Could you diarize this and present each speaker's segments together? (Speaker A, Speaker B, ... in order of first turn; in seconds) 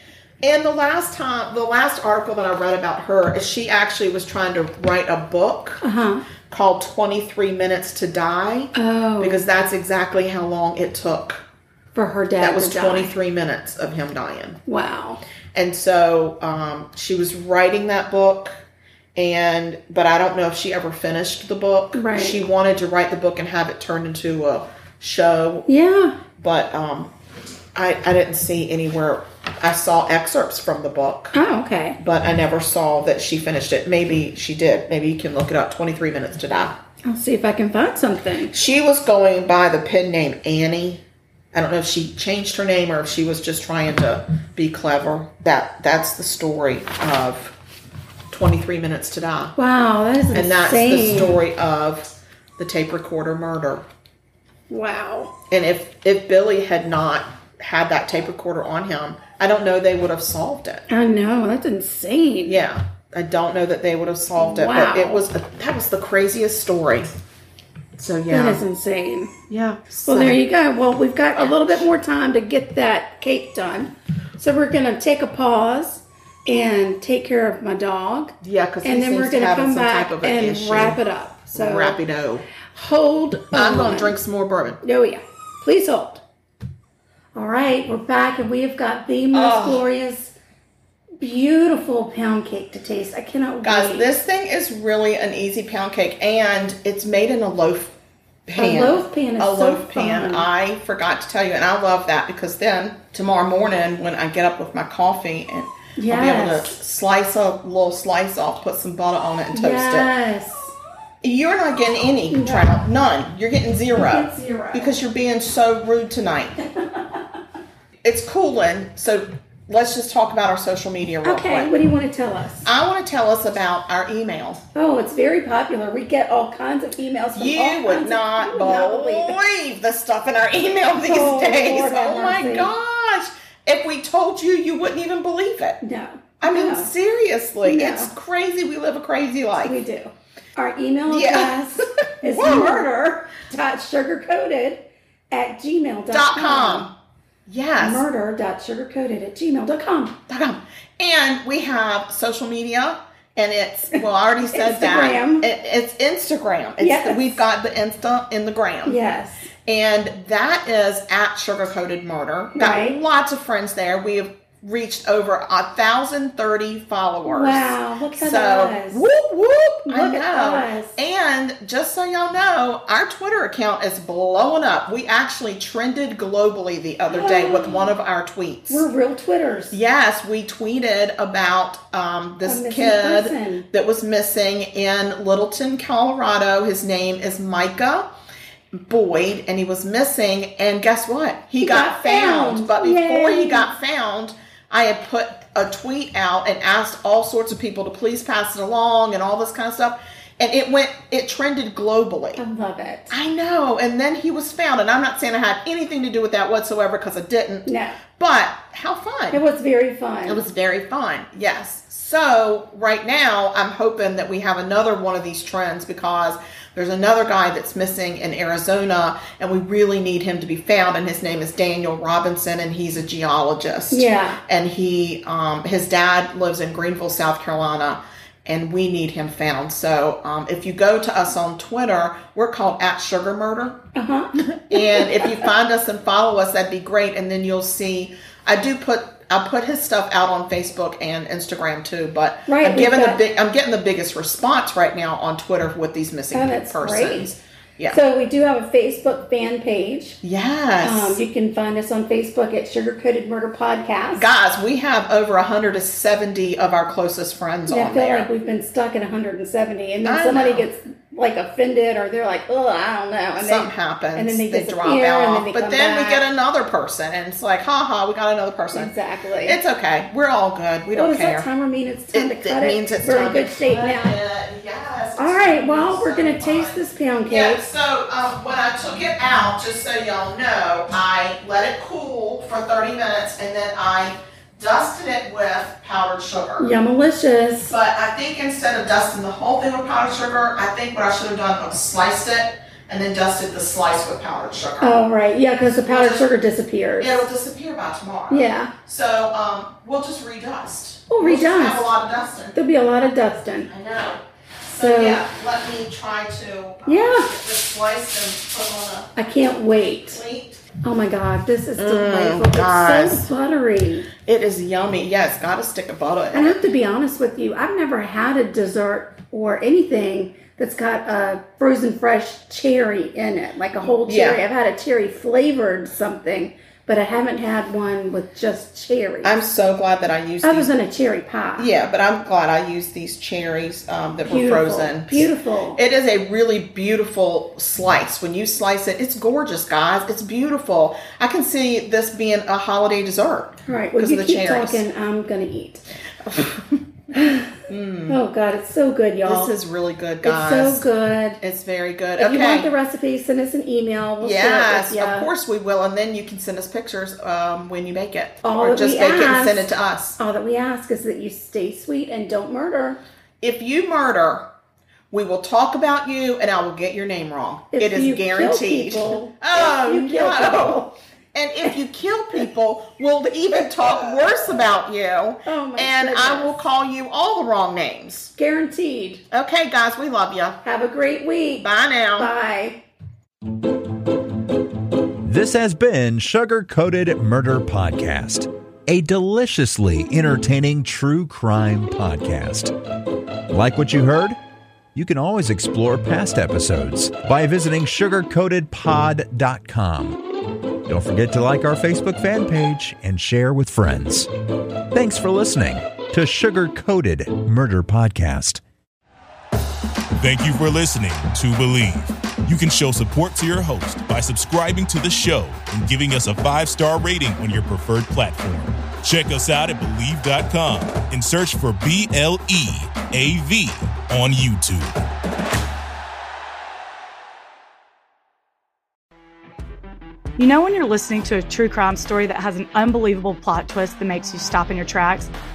Speaker A: 0.4-5.8, 6.5-11.4, 12.4-14.6, 15.5-18.6, 19.2-25.7, 26.3-27.1, 27.8-31.4, 32.0-36.8, 38.5-47.5, 48.3-49.5, 50.3-53.9, 55.5-60.9, 62.5-67.1, 68.0-68.6, 69.5-70.4, 78.4-81.0, 81.5-82.5, 83.5-84.8, 89.3-89.9, 93.6-98.0, 98.5-110.1, 111.2-116.6, 118.0-121.8, 122.6-124.6, 127.3-135.8, 136.4-139.8, 141.1-141.6, 142.2-142.9, 146.1-146.9, 147.5-148.1, 150.3-159.0, 159.7-178.9, 179.7-188.1, 188.7-202.4, 203.1-209.4, 210.3-233.8, 234.4-248.0, 250.2-251.2, 254.2-258.3, 260.0-260.7, 263.4-271.5, 272.1-286.7, 287.6-295.0, 295.9-296.3, 297.0-302.6, 303.7-309.1, 310.1-310.6, 311.8-313.3, 314.2-316.6, 324.1-324.4, 329.2-330.7, 331.6-344.8, 346.2-346.9, 347.7-348.2, 349.2-350.9, 351.4-352.7, 354.2-360.2, 363.4-364.5, 365.1-378.3, 379.3-380.6, 381.6-382.3
Speaker B: 5.8-6.2, 8.7-9.4, 11.9-13.2, 14.7-15.2, 21.9-22.4, 25.7-26.2, 31.3-32.0, 37.1-38.5, 49.6-51.4, 54.7-55.3, 60.9-62.6, 64.4-65.2, 68.3-69.3, 70.0-82.0, 82.7-84.2, 84.8-86.2, 87.3-90.3, 91.2-94.1, 98.6-100.5, 106.0-106.8, 109.5-110.7, 112.3-112.8, 114.0-115.0, 116.8-117.1, 121.2-122.7, 124.8-129.4, 131.0-132.7, 135.8-136.9, 137.6-138.1, 139.6-146.9, 147.8-150.2, 153.9-155.5, 156.8-157.4, 158.8-159.5, 162.6-163.0, 167.2-169.0, 169.9-171.0, 177.1-177.9, 178.7-179.8, 182.4-183.7, 191.6-193.7, 202.4-203.1, 207.7-208.0, 209.3-210.4, 223.9-224.4, 233.9-235.4, 242.5-243.2, 246.3-247.3, 247.9-250.2, 250.8-254.3, 257.7-266.2, 268.7-269.6, 270.9-274.2, 275.2-277.6, 286.6-287.7, 294.8-297.3, 298.3-298.7, 301.1-301.9, 302.5-303.7, 304.8-305.2, 306.9-307.3, 309.2-310.2, 310.8-314.1, 316.3-329.4, 330.4-331.7, 334.3-335.8, 343.7-345.8, 347.1-347.6, 348.1-349.5, 350.2-351.4, 352.2-355.3, 358.4-363.0, 367.7-370.9, 375.5-376.6, 378.4-379.2, 380.6-382.8
Speaker C: 385.2-392.7, 393.5-394.4, 394.9-400.2, 400.9-404.3, 404.9-408.6
Speaker D: 410.2-425.0
Speaker E: 430.4-435.3